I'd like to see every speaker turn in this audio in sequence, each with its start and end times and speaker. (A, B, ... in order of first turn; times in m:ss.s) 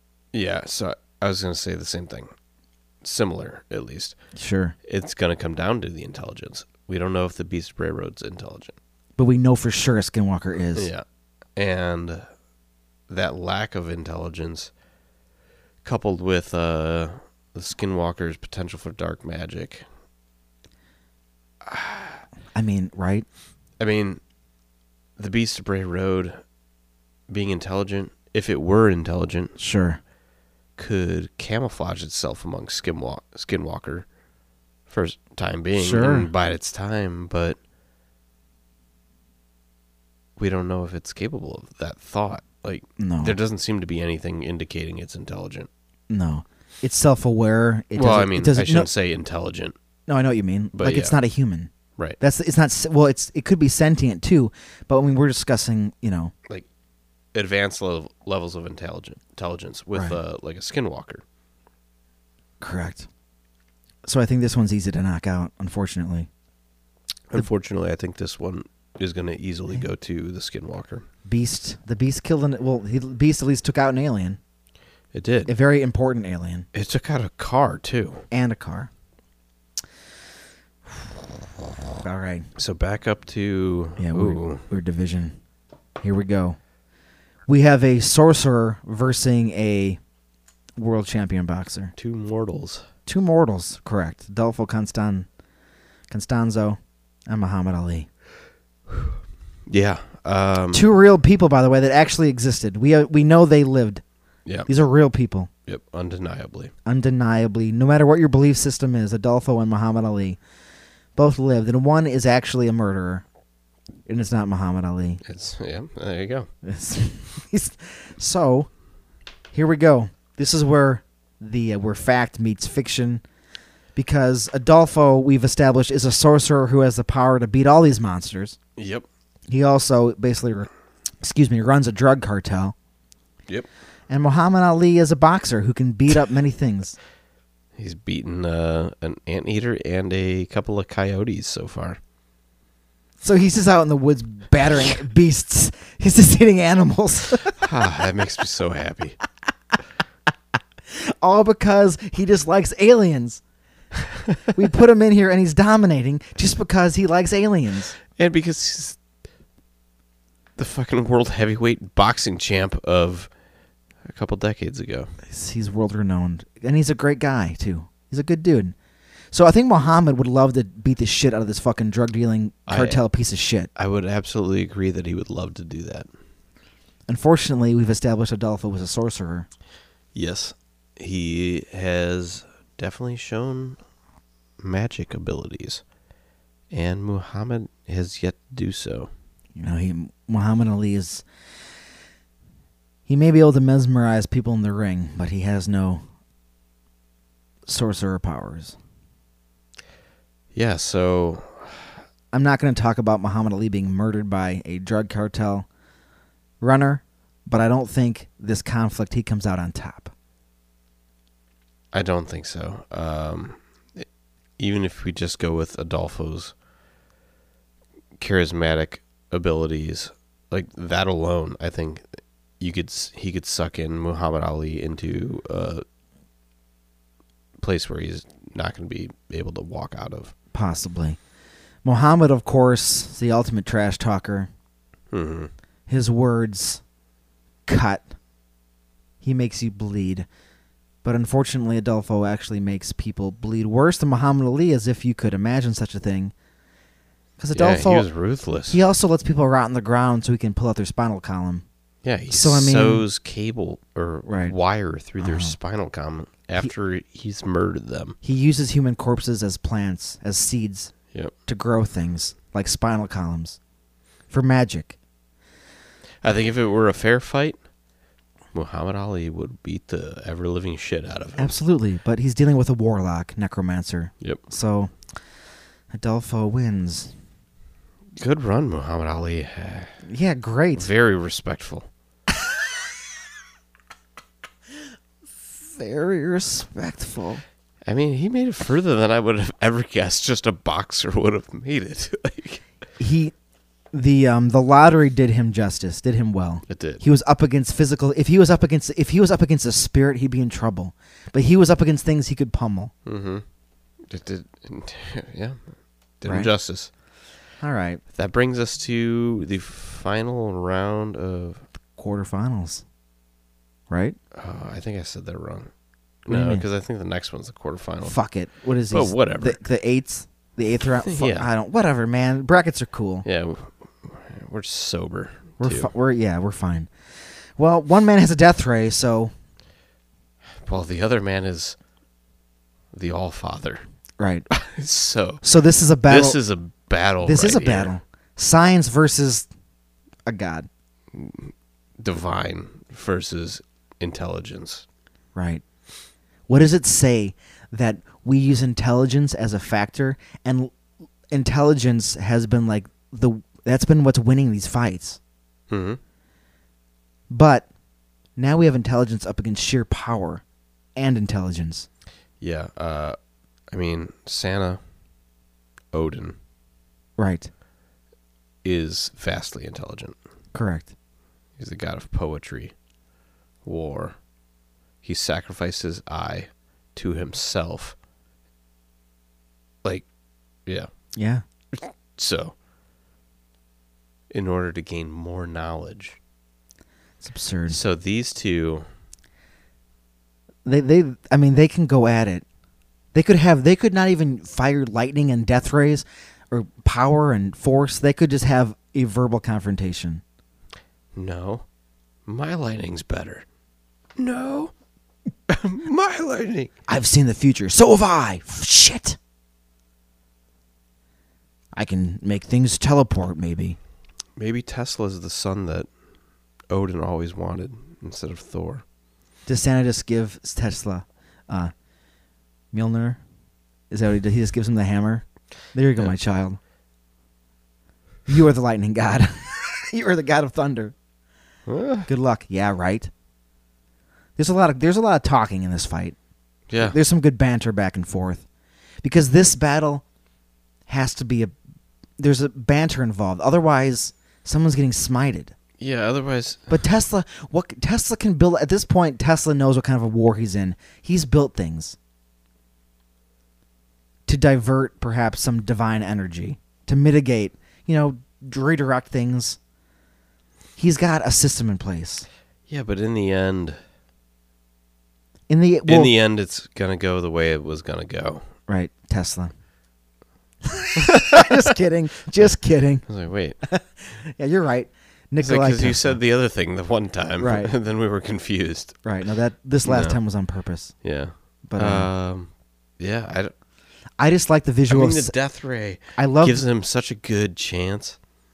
0:00.3-0:02.3 A
0:03.0-0:04.2 A
0:04.4-0:04.8 B
0:04.8-0:08.8 A
0:09.2-0:10.9 B
0:10.8-0:11.0 A
0:11.6-0:12.2 A
0:13.1-0:14.7 A
0:15.8-0:19.9 A
0:21.6-0:22.2 A
0:22.5-0:23.3 B
0:23.8-0:24.2 A
0:25.2-0:26.4 A
0:27.3-0:29.6 A
0:29.6-0:30.0 B
0:30.8-0:34.1 A
0:34.9-0:37.6 A
0:35.8-0:36.3 B
0:40.4-0:45.7 A
0:43.0-0:43.4 B
0:46.1-0:48.9 B
0:48.0-0:49.8 A
0:50.1-0:56.3 B
0:50.7-0:51.2 A
0:57.3-1:01.2 A
1:02.6-1:03.1 B
1:04.0-1:06.3 B
1:07.3-1:11.0 A
1:11.2-1:14.4 B
1:15.1-1:15.5 A
1:15.5-1:16.7 B
1:16.7-1:18.3 A
1:18.3-1:18.9 B
1:21.9-1:22.5 B
1:22.6-1:24.7 A
1:24.0-1:25.4 B
1:26.0-1:26.6 B
1:27.5-1:30.0 B
1:30.8-1:31.9 B
1:32.0-1:32.9 A
1:33.1-1:35.3 B
1:36.1-1:38.1 B
1:39.7-1:40.8 A
1:40.7-1:44.0 B
1:44.7-1:45.5 B
1:45.7-1:46.7 A
1:46.9-1:50.4 B
1:51.2-1:53.2 B
1:54.1-1:55.2 B
1:55.2-1:56.5 A
1:56.6-1:58.7 B
1:59.5-2:03.2 B
2:04.0-2:08.6 B
2:08.8-2:09.1 A
2:09.5-2:10.7 B
2:11.2-2:12.8 B
2:14.1-2:17.0 B
2:17.8-2:22.0 A
2:23.2-2:27.6 B
2:27.6-2:29.2 A
2:30.9-2:33.4 B
2:34.5-2:38.0 B
2:38.1-2:39.0 A
2:40.6-2:43.3 A
2:44.0-2:45.1 A
2:45.2-2:48.8 B
2:49.3-2:53.7 B
2:52.7-2:53.0 A
2:53.8-2:56.1 A
2:57.1-2:59.5 B
3:00.1-3:03.8 A
3:04.6-3:05.8 A
3:06.7-3:09.1 A
3:09.6-3:11.2 B
3:13.1-3:16.0 B
3:17.7-3:18.8 B
3:20.5-3:22.0 A
3:22.3-3:25.7 B
3:26.6-3:30.1 B
3:31.9-3:34.1 A
3:34.6-3:36.5 A
3:38.2-3:45.8 A
3:47.6-3:50.3 A
3:50.5-3:51.2 B
3:51.8-3:54.5 B
3:55.1-3:55.5 A
3:55.9-3:56.8 B
3:57.7-3:58.1 B
3:59.2-4:00.3 B
4:01.0-4:06.3 B
4:07.4-4:08.1 B
4:07.5-4:08.8 A
4:08.7-4:11.6 B
4:12.0-4:18.2 A
4:12.3-4:13.1 B
4:14.3-4:14.6 B
4:15.2-4:15.6 B
4:18.2-4:20.9 B
4:21.5-4:23.6 B
4:24.3-4:25.0 B
4:26.2-4:27.6 A
4:28.5-4:31.6 A
4:31.4-4:34.9 B
4:35.9-4:37.1 B
4:38.2-4:40.0 A
4:40.0-4:40.9 B
4:40.8-4:41.9 A
4:45.6-4:47.4 B
4:47.8-4:52.6 A
4:53.0-4:53.3 B
4:53.9-5:02.9 B
4:56.7-4:57.0 A
5:03.0-5:03.4 A
5:04.1-5:05.6 A
5:06.2-5:06.9 A
5:06.3-5:06.5 B
5:07.6-5:08.0 B
5:08.1-5:11.6 A
5:12.0-5:12.8 B
5:13.9-5:14.2 B
5:14.3-5:15.7 A
5:16.3-5:18.2 A
5:16.3-5:16.6 B
5:18.0-5:23.3 B
5:18.9-5:19.6 A
5:21.0-5:21.5 A
5:23.2-5:25.9 A
5:25.6-5:26.9 B
5:27.6-5:29.3 B
5:30.6-5:31.8 A
5:32.9-5:33.8 A
5:34.2-5:34.5 B
5:34.5-5:35.4 A
5:35.4-5:36.4 B
5:36.1-5:37.9 A
5:37.2-5:39.5 B
5:40.3-5:40.7 B
5:41.1-5:44.8 A
5:45.4-5:45.6 B
5:46.5-5:50.7 B
5:51.3-5:55.2 B
5:55.7-5:56.0 A
5:57.3-5:57.7 B
5:58.4-6:00.4 B
6:01.0-6:01.9 B
6:02.4-6:03.2 A
6:03.7-6:04.8 A
6:05.9-6:06.4 A
6:07.2-6:07.5 B
6:08.6-6:10.2 A
6:10.5-6:10.9 B
6:11.6-6:12.7 A
6:13.6-6:14.2 A
6:15.0-6:18.0 A
6:21.2-6:21.4 B
6:21.7-6:22.5 A
6:24.3-6:26.2 A
6:27.2-6:27.8 B
6:27.7-6:28.9 A
6:30.6-6:32.4 B
6:33.1-6:40.2 B
6:41.1-6:41.7 A
6:42.3-6:43.4 A
6:44.2-6:44.7 A
6:45.5-6:46.7 A
6:46.9-6:49.2 B
6:51.8-6:53.8 B
6:54.4-6:55.9 A
6:56.7-6:58.8 A
6:59.5-7:01.7 B
7:02.7-7:03.2 B
7:03.9-7:06.6 B
7:08.3-7:11.0 B
7:11.7-7:12.1 A
7:12.1-7:13.1 B
7:14.4-7:16.2 B
7:16.7-7:17.0 A
7:16.8-7:18.4 B
7:19.0-7:20.0 B
7:20.9-7:21.5 B
7:22.2-7:25.5 B
7:25.8-7:26.8 A
7:26.7-7:32.0 B
7:34.3-7:39.6 B
7:40.8-7:42.3 B
7:42.7-7:43.8 A
7:45.5-7:46.1 B
7:45.9-7:48.5 A
7:48.7-7:49.5 B
7:50.7-7:53.1 B
7:51.1-7:51.6 A
7:53.1-7:53.6 A
7:53.6-7:56.2 B
7:55.4-7:59.0 A
7:57.4-7:57.7 B
7:59.0-8:01.0 B
7:59.8-8:00.2 A
8:01.0-8:03.5 A
8:01.7-8:02.1 B
8:04.2-8:05.3 B
8:04.9-8:08.2 A
8:06.2-8:06.6 B